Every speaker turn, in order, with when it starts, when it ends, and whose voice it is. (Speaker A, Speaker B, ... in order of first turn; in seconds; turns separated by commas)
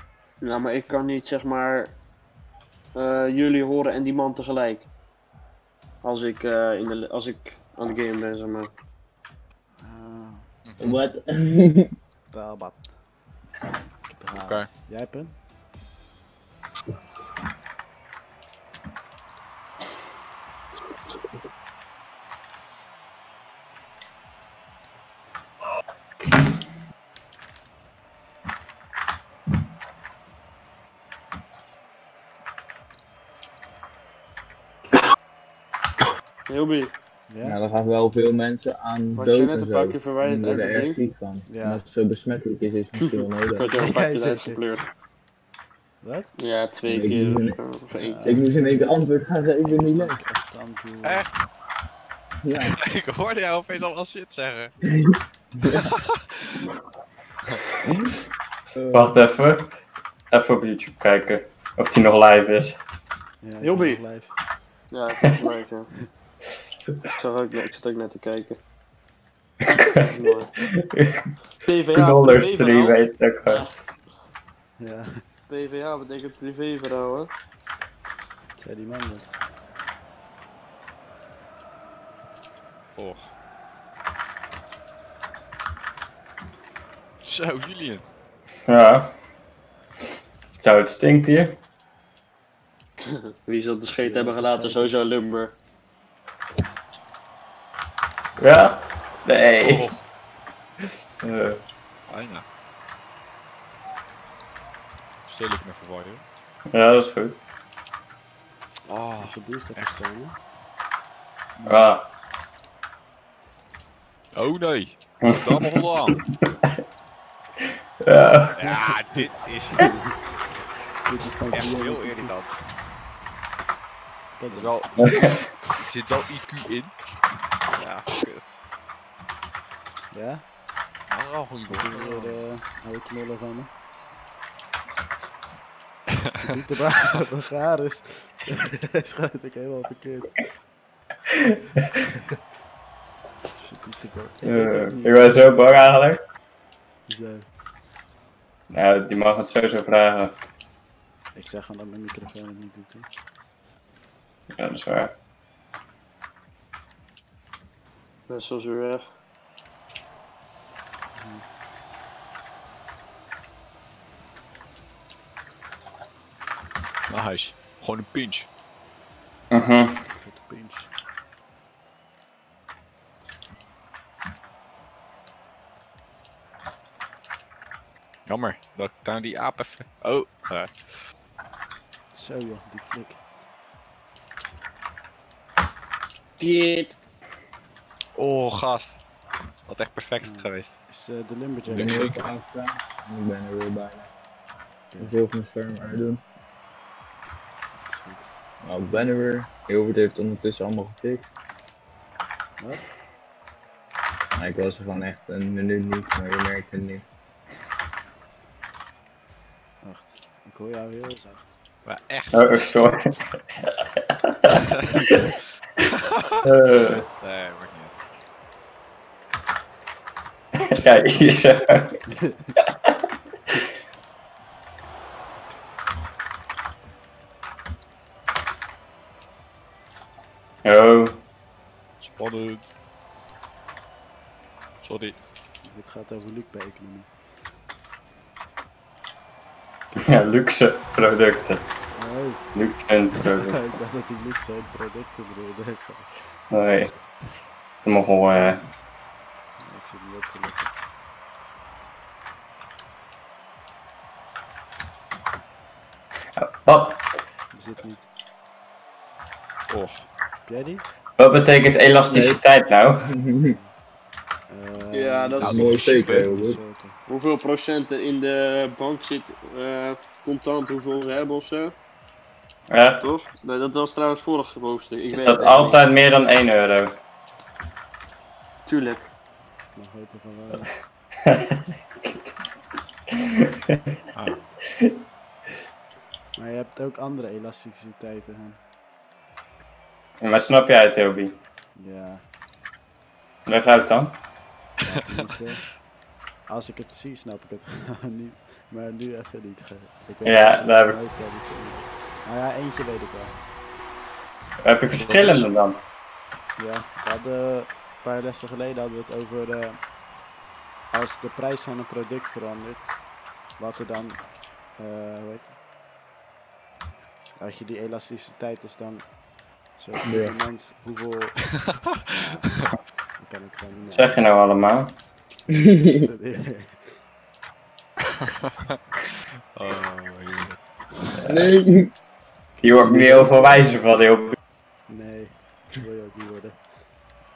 Speaker A: 0.4-1.9, Speaker A: 2.9-4.9, Speaker A: 6.0-8.7, Speaker B: 9.8-10.5, Speaker C: 10.6-11.0, Speaker D: 10.8-11.9, Speaker B: 12.3-13.0, Speaker B: 14.1-15.3, Speaker C: 14.4-14.7, Speaker A: 36.5-36.9, Speaker B: 37.3-37.6, Speaker D: 37.4-43.8, Speaker A: 39.1-41.0, Speaker B: 41.5-41.8, Speaker A: 43.0-44.8, Speaker B: 43.7-44.6, Speaker B: 46.0-46.3, Speaker A: 46.4-48.3, Speaker D: 46.9-47.6, Speaker B: 48.0-48.7, Speaker D: 48.2-50.2, Speaker B: 49.6-51.3, Speaker C: 51.0-51.4, Speaker D: 52.4-52.8, Speaker C: 52.7-54.7, Speaker C: 55.7-56.6, Speaker D: 58.8-59.2, Speaker E: 58.9-59.7, Speaker E: 60.3-62.8, Speaker B: 63.4-64.3, Speaker A: 63.6-64.0, Speaker A: 64.9-65.9, Speaker A: 67.2-68.6, Speaker E: 69.7-70.0, Speaker A: 70.0-70.5, Speaker E: 70.8-71.3, Speaker A: 71.6-73.7, Speaker E: 71.9-73.6, Speaker B: 74.8-75.2, Speaker A: 75.5-77.3, Speaker B: 78.6-79.3, Speaker C: 83.0-83.3, Speaker C: 87.2-88.0, Speaker E: 88.7-89.1, Speaker E: 90.6-91.6, Speaker A: 93.5-95.5, Speaker B: 94.0-94.9, Speaker E: 98.4-99.9, Speaker C: 99.6-100.0, Speaker E: 101.2-101.6, Speaker C: 102.1-102.4, Speaker C: 105.2-106.2, Speaker E: 106.7-107.3, Speaker C: 108.8-110.0, Speaker B: 109.2-110.4, Speaker B: 111.6-111.9, Speaker E: 111.7-112.0, Speaker C: 114.3-116.2, Speaker E: 115.2-116.1, Speaker E: 118.0-118.5, Speaker C: 118.5-119.9, Speaker B: 121.0-122.4, Speaker C: 121.5-122.6, Speaker B: 124.4-125.1, Speaker C: 124.5-126.9, Speaker E: 125.0-125.4, Speaker C: 127.8-128.4, Speaker B: 130.1-130.4, Speaker C: 131.1-132.4, Speaker B: 131.7-133.7, Speaker B: 136.4-140.5, Speaker E: 141.5-141.8, Speaker B: 143.6-145.7, Speaker E: 144.4-146.2, Speaker B: 147.1-147.4, Speaker E: 148.7-150.3, Speaker B: 151.3-153.1, Speaker E: 154.6-155.1, Speaker A: 158.3-159.1, Speaker B: 161.2-161.4, Speaker C: 167.1-168.5, Speaker E: 169.5-169.9, Speaker B: 170.1-170.9, Speaker C: 178.3-181.1, Speaker B: 182.1-183.2, Speaker A: 186.4-186.9, Speaker C: 188.1-189.0, Speaker C: 189.6-190.7, Speaker B: 190.2-192.2, Speaker C: 191.7-192.3, Speaker D: 191.7-194.1, Speaker D: 195.0-196.2, Speaker B: 197.8-198.3, Speaker D: 198.6-201.3, Speaker B: 202.6-202.8, Speaker D: 204.3-207.0, Speaker B: 209.8-211.6, Speaker C: 211.8-213.0, Speaker E: 212.3-215.2, Speaker C: 214.5-215.2, Speaker C: 215.8-216.4, Speaker E: 216.4-217.0, Speaker C: 217.2-217.9, Speaker E: 220.6-222.0, Speaker C: 220.7-221.4, Speaker E: 230.6-231.2, Speaker C: 232.0-232.6, Speaker C: 234.8-235.1, Speaker B: 235.6-237.2, Speaker B: 239.9-240.2, Speaker E: 240.0-241.6, Speaker B: 241.9-242.4, Speaker E: 242.5-243.6, Speaker B: 243.2-246.4, Speaker E: 246.5-246.9, Speaker E: 247.8-248.6, Speaker B: 248.1-248.6, Speaker B: 249.6-250.7, Speaker E: 256.4-257.0, Speaker B: 257.5-258.1, Speaker C: 259.7-260.0, Speaker B: 260.4-260.8, Speaker E: 261.2-263.1, Speaker D: 262.1-262.4, Speaker D: 263.1-263.6, Speaker B: 264.5-267.0, Speaker A: 264.9-265.5, Speaker C: 265.4-266.3, Speaker D: 265.4-266.6, Speaker A: 267.1-271.7, Speaker E: 272.7-273.0, Speaker A: 273.0-275.8, Speaker E: 275.1-276.9, Speaker A: 278.6-279.1, Speaker B: 279.7-280.7, Speaker C: 284.1-284.4, Speaker B: 286.3-288.6, Speaker E: 290.2-291.3, Speaker B: 291.8-292.2, Speaker E: 293.4-294.1, Speaker B: 294.8-295.8, Speaker B: 296.4-303.4, Speaker E: 300.2-301.0, Speaker E: 304.6-305.8, Speaker C: 304.9-305.5, Speaker B: 306.6-309.9, Speaker B: 310.9-313.0, Speaker B: 313.5-315.5, Speaker B: 317.4-321.6, Speaker D: 320.0-320.3, Speaker B: 322.1-322.5, Speaker B: 323.2-324.2, Speaker E: 323.9-324.9, Speaker D: 325.5-326.0, Speaker B: 325.9-327.0, Speaker C: 328.2-328.8, Speaker C: 329.5-330.6, Speaker D: 331.2-331.9, Speaker E: 332.6-334.4, Speaker D: 332.7-333.3, Speaker B: 334.9-337.0